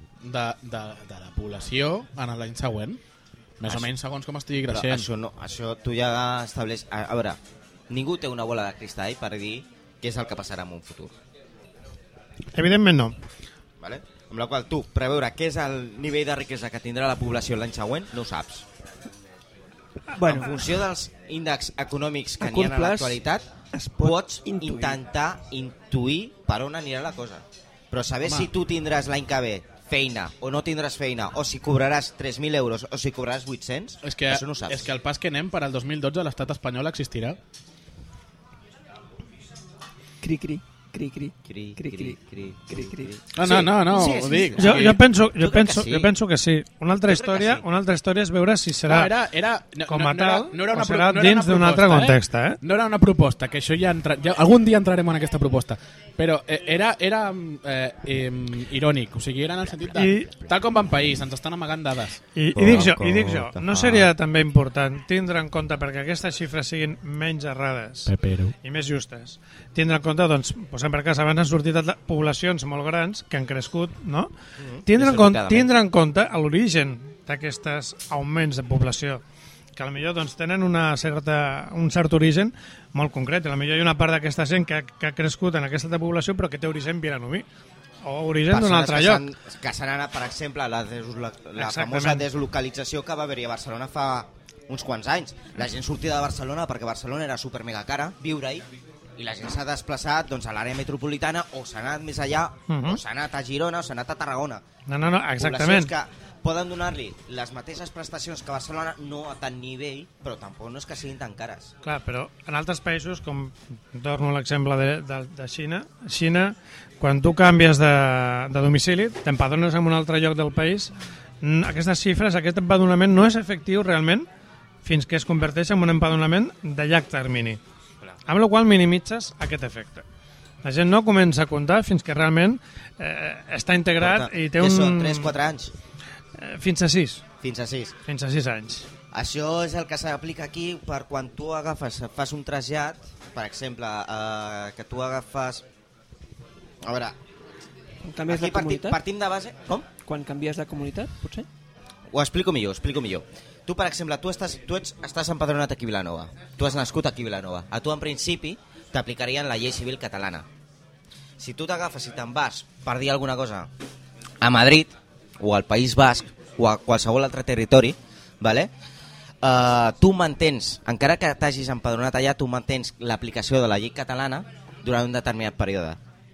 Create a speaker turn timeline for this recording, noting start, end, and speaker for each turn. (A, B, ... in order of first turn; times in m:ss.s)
0:00.2-0:03.0 A
0:03.6-0:05.1 A
0:04.7-0:07.4 B
0:07.9-0:11.2 B
0:12.5-0:13.2 C
0:13.8-0:18.7 B
0:20.2-0:20.6 D
0:20.2-0:23.5 B
0:22.4-0:23.2 D
0:23.7-0:25.0 D
0:24.0-0:34.9 B
0:34.0-0:37.4 A
0:40.2-0:43.1 D
0:41.4-0:46.1 B
0:43.4-0:45.0 A
0:44.6-0:49.1 C
0:47.1-0:47.6 B
0:48.9-1:02.2 A
0:49.9-0:52.6 C
1:00.0-1:00.4 C
1:02.4-1:14.3 C
1:02.6-1:04.1 B
1:08.1-1:08.6 A
1:14.6-1:15.7 B
1:14.9-1:19.2 C
1:19.8-1:27.5 C
1:28.0-1:29.2 C
1:28.5-1:44.6 B
1:31.6-1:32.2 C
1:42.7-1:43.0 C
1:44.9-1:45.9 C
1:45.4-1:51.7 B
1:51.8-2:04.3 C
2:04.8-2:07.6 C
2:08.3-2:10.0 C
2:10.6-2:15.3 C
2:14.0-2:15.7 B
2:16.4-2:17.2 C
2:17.4-2:18.0 B
2:18.1-2:18.9 C
2:19.1-2:25.6 B
2:26.8-2:27.2 B
2:28.0-2:29.0 D
2:28.3-2:29.9 B
2:30.0-2:31.5 D
2:32.1-2:40.5 B
2:41.4-2:43.7 B
2:44.4-2:48.7 B
2:49.4-2:56.0 B